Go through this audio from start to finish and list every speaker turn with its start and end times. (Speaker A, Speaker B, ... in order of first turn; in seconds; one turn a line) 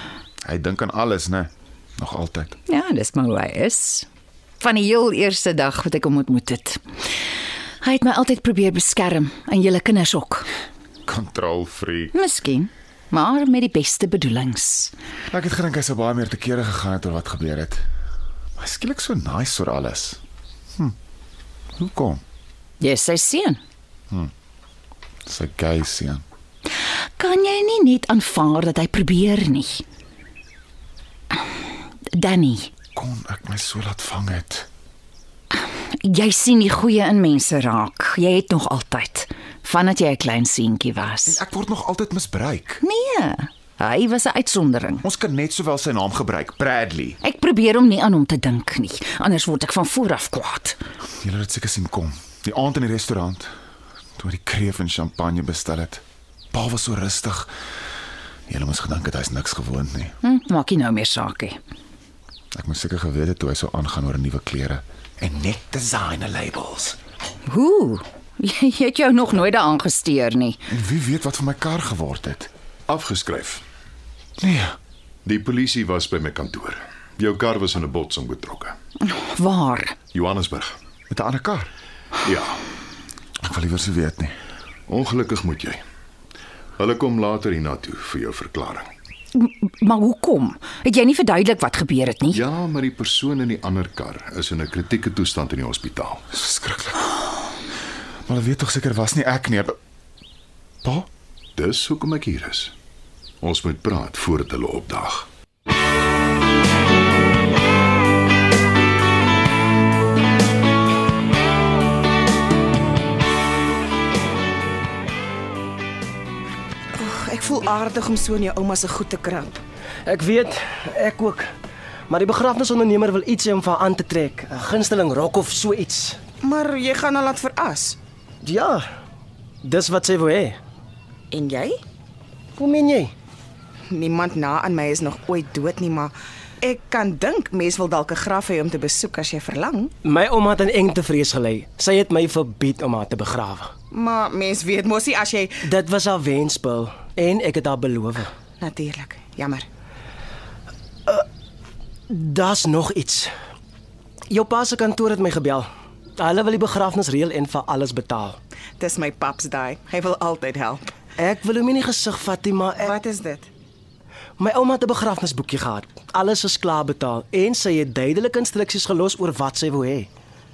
Speaker A: 0.4-2.6
Speaker B: 2.7-4.1
Speaker B: 4.6-6.8
Speaker B: 7.8-10.5
Speaker A: 11.1-12.2
Speaker B: 12.1-14.9
Speaker A: 15.3-17.8
Speaker A: 18.6-20.2
Speaker A: 21.8-22.2
Speaker B: 22.8-23.6
Speaker A: 25.2-26.2
Speaker B: 27.2-29.8
Speaker B: 32.1-32.7
Speaker A: 32.9-34.7
Speaker B: 35.5-41.4
Speaker A: 41.2-42.8
Speaker B: 42.8-45.0
Speaker A: 45.0-47.2
Speaker B: 47.2-50.8
Speaker A: 51.2-53.5
Speaker A: 54.2-56.0
Speaker A: 56.5-57.5
Speaker A: 58.5-60.1
Speaker B: 60.2-61.6
Speaker A: 62.5-67.0
Speaker B: 67.5-70.6
Speaker A: 70.7-72.5
Speaker C: 72.9-73.6
Speaker A: 74.4-74.8
Speaker C: 75.2-78.8
Speaker B: 79.0-80.0
Speaker C: 80.1-80.8
Speaker A: 81.1-81.7
Speaker C: 82.2-82.6
Speaker A: 83.4-84.3
Speaker C: 84.9-85.8
Speaker C: 86.8-88.9
Speaker B: 89.3-92.4
Speaker C: 92.3-96.2
Speaker A: 96.3-97.1
Speaker A: 98.2-99.8
Speaker A: 100.8-101.1
Speaker C: 101.5-102.7
Speaker C: 103.4-105.3
Speaker D: 116.9-119.6
Speaker E: 120.0-121.5
Speaker E: 122.1-126.2
Speaker D: 126.4-128.0
Speaker E: 128.4-128.8
Speaker E: 129.6-130.6
Speaker D: 131.3-131.8
Speaker E: 132.6-133.1
Speaker D: 133.9-139.9
Speaker E: 140.0-143.7
Speaker D: 143.9-145.7
Speaker E: 145.6-148.3
Speaker D: 148.6-149.7
Speaker E: 152.1-153.3
Speaker E: 154.3-155.7
Speaker E: 156.2-158.4
Speaker D: 158.8-160.9
Speaker E: 161.2-162.9
Speaker D: 162.8-163.5
Speaker E: 164.4-170.1